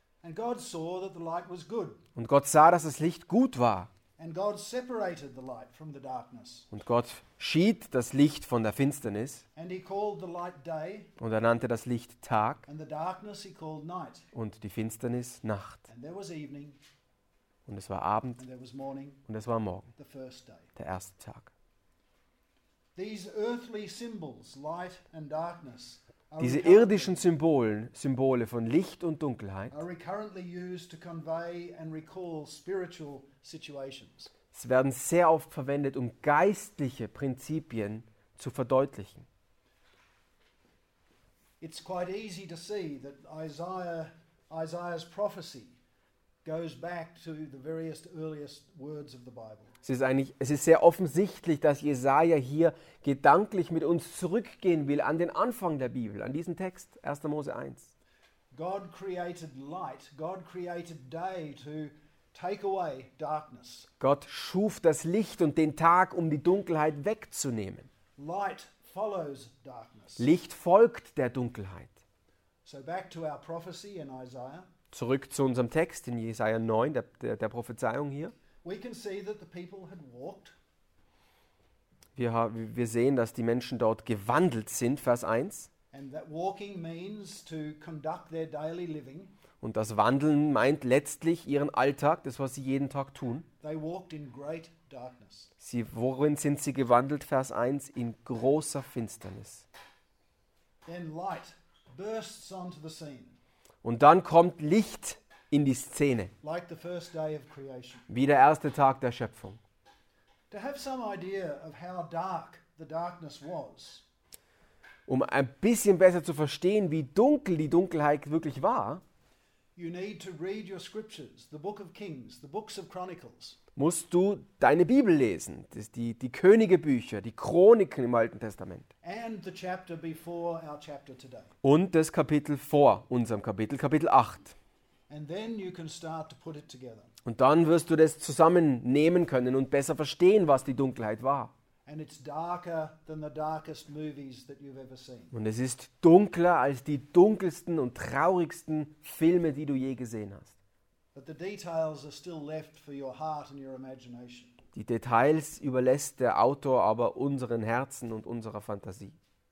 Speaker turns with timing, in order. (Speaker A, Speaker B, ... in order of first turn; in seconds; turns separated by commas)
Speaker A: 0.2-2.0, Speaker B: 2.1-3.9, Speaker A: 4.2-6.7, Speaker B: 6.7-9.4, Speaker A: 9.6-11.1, Speaker B: 11.2-12.6, Speaker A: 12.7-14.3, Speaker B: 14.3-15.8, Speaker A: 15.9-16.8, Speaker B: 17.6-18.4, Speaker A: 18.4-19.2, Speaker B: 19.3-19.9, Speaker A: 19.9-20.7, Speaker B: 20.8-21.5, Speaker A: 22.9-27.2, Speaker B: 26.4-29.8, Speaker A: 29.7-34.3, Speaker B: 34.5-39.3, Speaker A: 41.6-45.8, Speaker A: 46.4-49.7, Speaker B: 49.8-57.9, Speaker A: 58.5-63.9, Speaker B: 64.0-67.9, Speaker A: 68.2-70.3, Speaker B: 70.2-72.0, Speaker A: 72.6-74.7, Speaker B: 74.9-78.3, Speaker A: 78.6-80.5, Speaker B: 82.2-85.7, Speaker A: 85.9-89.3, Speaker B: 89.6-93.5, Speaker A: 93.6-95.5, Speaker B: 95.6-99.7, Speaker A: 100.8-103.4, Speaker B: 103.8-106.3, Speaker A: 106.4-108.1, Speaker B: 108.1-109.6, Speaker A: 110.5-114.0, Speaker B: 115.1-119.0, Speaker A: 119.8-123.6, Speaker B: 123.8-128.9, Speaker A: 129.0-131.5, Speaker B: 131.6-134.6, Speaker A: 135.1-137.1, Speaker B: 137.2-141.5, Speaker A: 141.8-145.3, Speaker B: 145.3-150.5, Speaker A: 151.1-154.6, Speaker B: 154.7-159.2